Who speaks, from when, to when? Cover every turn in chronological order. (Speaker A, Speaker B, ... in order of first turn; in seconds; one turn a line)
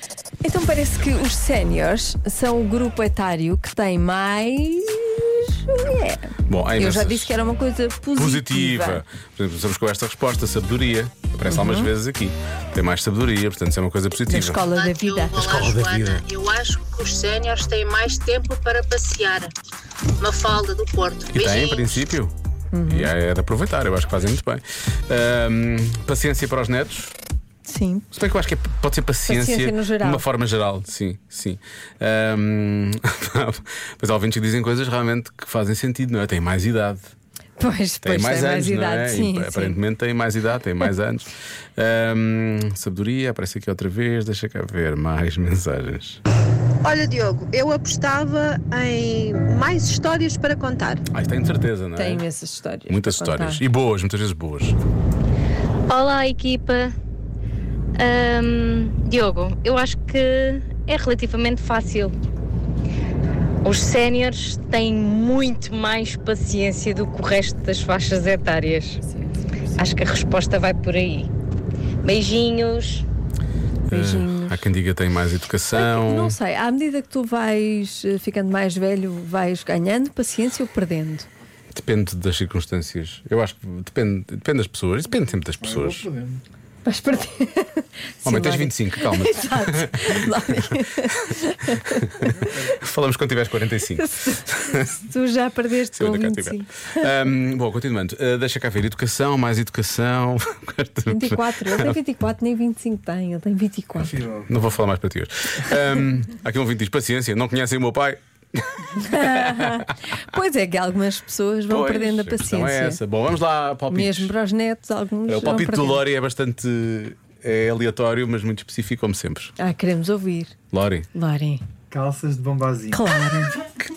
Speaker A: 0.5-9.0
Speaker B: 6.5-7.4
Speaker B: 8.2-14.7
Speaker A: 11.5-11.8
Speaker A: 14.3-15.4
Speaker C: 14.6-19.5
Speaker B: 15.4-16.2
Speaker C: 20.2-22.0
Speaker B: 21.3-22.3
Speaker A: 22.8-23.0
Speaker B: 22.8-27.1
Speaker A: 27.7-28.1
Speaker B: 28.1-37.1
Speaker A: 29.3-30.2
Speaker A: 37.6-39.8
Speaker B: 38.0-46.2
Speaker D: 46.9-51.0
Speaker B: 51.1-52.3
Speaker A: 52.0-53.6
Speaker B: 52.9-54.8
Speaker E: 55.9-56.9
Speaker E: 58.0-62.1
Speaker E: 63.6-69.0
Speaker E: 69.8-71.3
Speaker E: 72.0-73.0
Speaker B: 73.9-76.4
Speaker A: 74.0-74.5
Speaker A: 75.7-81.3
Speaker B: 81.7-86.1
Speaker F: 85.6-86.4
Speaker A: 86.8-92.3
Speaker B: 88.2-95.0
Speaker F: 92.4-92.7
Speaker A: 94.0-97.1
Speaker B: 95.9-102.0
Speaker A: 101.1-104.0
Speaker B: 104.0-109.9
Speaker F: 104.0-104.6
Speaker A: 109.2-113.0
Speaker B: 111.7-114.3
Speaker A: 113.9-115.9
Speaker B: 115.2-119.5
Speaker A: 119.6-120.5
Speaker B: 120.7-121.1
Speaker A: 121.2-121.6
Speaker F: 121.9-123.1
Speaker A: 122.9-123.6